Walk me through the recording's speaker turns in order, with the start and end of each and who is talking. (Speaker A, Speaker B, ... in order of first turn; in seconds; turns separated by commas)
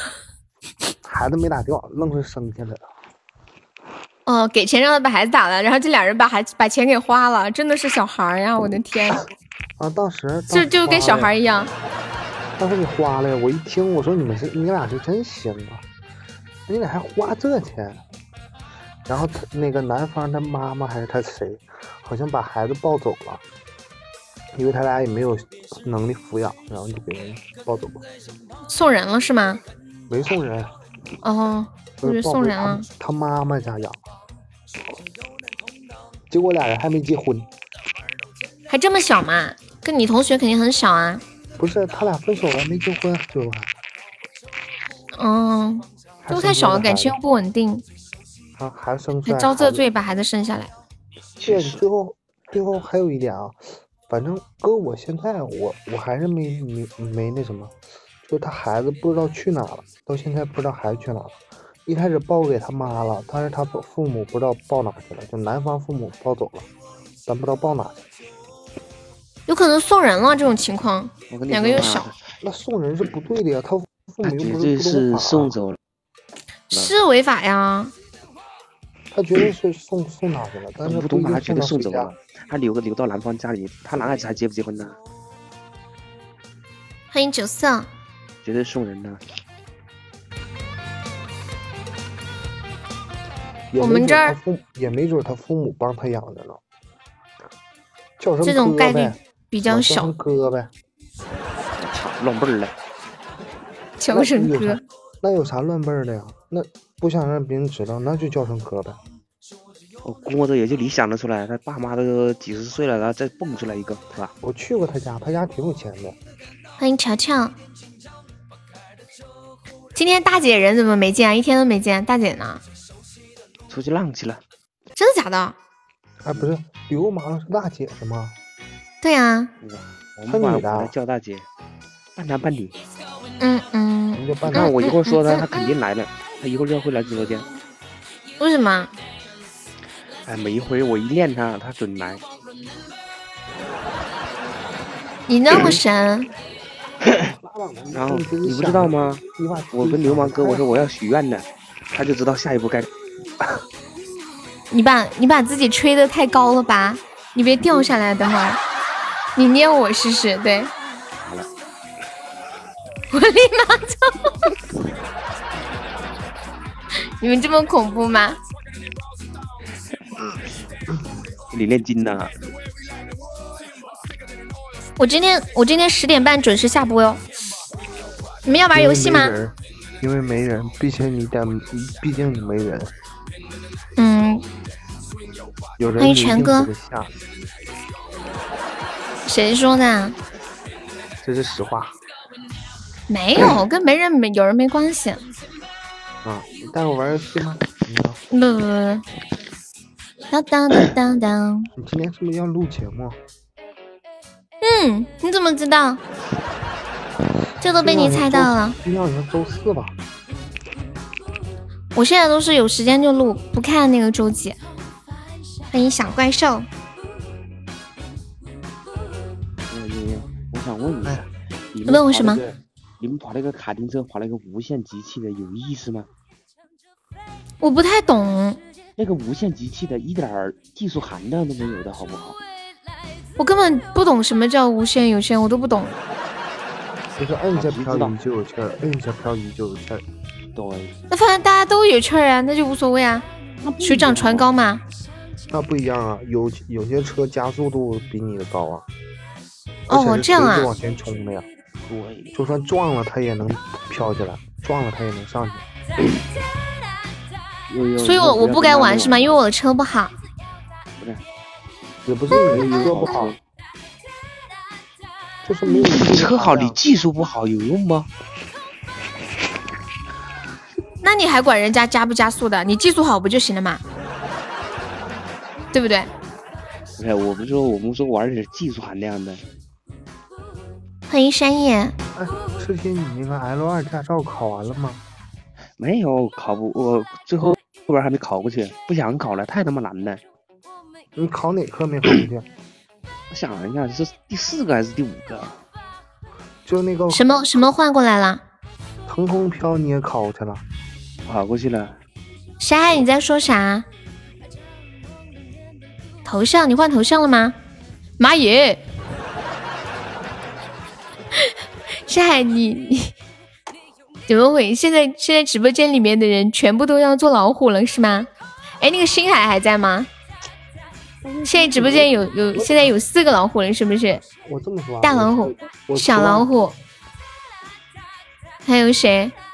Speaker A: 1.0-2.9, Speaker B: 4.2-9.2, Speaker A: 9.8-11.3, Speaker B: 10.5-11.7, Speaker A: 12.6-15.8, Speaker A: 16.7-18.0, Speaker A: 19.1-23.4, Speaker A: 24.5-28.1, Speaker B: 28.7-29.6, Speaker A: 30.1-30.7, Speaker B: 31.2-32.9, Speaker A: 32.0-34.0, Speaker A: 36.3-37.5, Speaker B: 38.7-41.2, Speaker A: 41.6-43.7, Speaker B: 45.1-47.8, Speaker A: 46.2-47.1, Speaker A: 48.6-49.8, Speaker B: 49.2-50.7, Speaker C: 51.4-51.8, Speaker A: 51.4-57.7, Speaker A: 58.2-66.7, Speaker A: 67.3-68.0, Speaker B: 69.5-72.1, Speaker C: 71.3-72.2, Speaker A: 72.4-75.5, Speaker C: 74.2-75.8, Speaker B: 76.7-77.9, Speaker A: 79.1-82.1, Speaker C: 80.8-85.0, Speaker B: 87.1-87.9, Speaker C: 88.4-89.2, Speaker A: 93.7-96.6, Speaker B: 93.8-94.3, Speaker A: 98.2-100.7, Speaker B: 98.4-100.1, Speaker C: 101.8-102.7, Speaker B: 104.0-104.8, Speaker A: 104.1-109.0, Speaker C: 110.0-114.3, Speaker A: 114.4-116.2, Speaker B: 116.8-117.5, Speaker B: 119.9-122.6, Speaker C: 123.7-124.4, Speaker B: 125.0-125.6, Speaker A: 126.2-128.3, Speaker B: 129.0-129.5, Speaker C: 129.6-131.5, Speaker A: 130.3-130.9, Speaker C: 132.2-132.8, Speaker B: 133.4-135.5, Speaker A: 134.1-134.9, Speaker C: 134.4-137.5, Speaker B: 138.4-138.9, Speaker C: 140.2-142.2, Speaker B: 145.3-146.3, Speaker C: 145.5-145.8, Speaker C: 147.1-147.3, Speaker A: 147.3-150.7, Speaker C: 147.9-149.2, Speaker C: 149.7-152.9, Speaker B: 154.7-158.6, Speaker B: 159.3-160.7, Speaker B: 163.1-164.5, Speaker B: 167.2-168.4, Speaker C: 171.5-172.3, Speaker B: 175.0-177.2, Speaker B: 178.4-179.3, Speaker A: 178.7-182.9, Speaker B: 184.0-184.4, Speaker A: 185.8-187.1, Speaker B: 186.0-186.7, Speaker B: 189.2-190.2, Speaker A: 191.2-191.9, Speaker B: 193.1-195.2, Speaker A: 196.2-198.2, Speaker B: 198.3-199.0, Speaker B: 200.3-201.7, Speaker A: 201.8-203.2, Speaker B: 204.6-206.0, Speaker B: 207.6-208.8, Speaker A: 207.8-209.9, Speaker B: 211.9-214.6, Speaker B: 215.7-216.7, Speaker C: 219.7-226.1, Speaker B: 221.9-222.4, Speaker B: 227.6-228.6, Speaker C: 229.0-232.4, Speaker B: 233.4-235.9, Speaker A: 237.2-240.0, Speaker C: 237.5-238.1, Speaker C: 240.5-240.9, Speaker B: 241.1-243.2, Speaker C: 243.6-244.4, Speaker B: 243.8-244.8, Speaker A: 245.5-248.8, Speaker B: 249.9-250.7, Speaker A: 249.9-251.5, Speaker C: 251.9-252.3, Speaker A: 252.3-255.6, Speaker C: 257.7-259.3, Speaker B: 258.0-260.1, Speaker A: 262.1-263.4, Speaker C: 262.3-263.4, Speaker B: 262.4-262.8, Speaker A: 265.4-266.8, Speaker C: 265.7-268.1, Speaker B: 271.0-273.8, Speaker B: 275.7-276.1, Speaker C: 277.0-279.4, Speaker B: 281.1-281.9, Speaker A: 282.1-285.0, Speaker C: 285.8-290.2, Speaker A: 291.1-292.5, Speaker C: 293.3-295.6, Speaker A: 296.6-297.3, Speaker B: 297.1-298.4, Speaker A: 299.1-300.6, Speaker C: 301.2-302.0, Speaker B: 302.6-303.9, Speaker B: 306.2-307.6, Speaker B: 308.2-308.8, Speaker B: 312.1-313.1, Speaker B: 314.3-318.3, Speaker B: 318.8-320.1, Speaker A: 321.2-322.9, Speaker B: 321.4-324.2, Speaker A: 324.4-326.5, Speaker B: 325.0-326.8, Speaker B: 328.6-329.3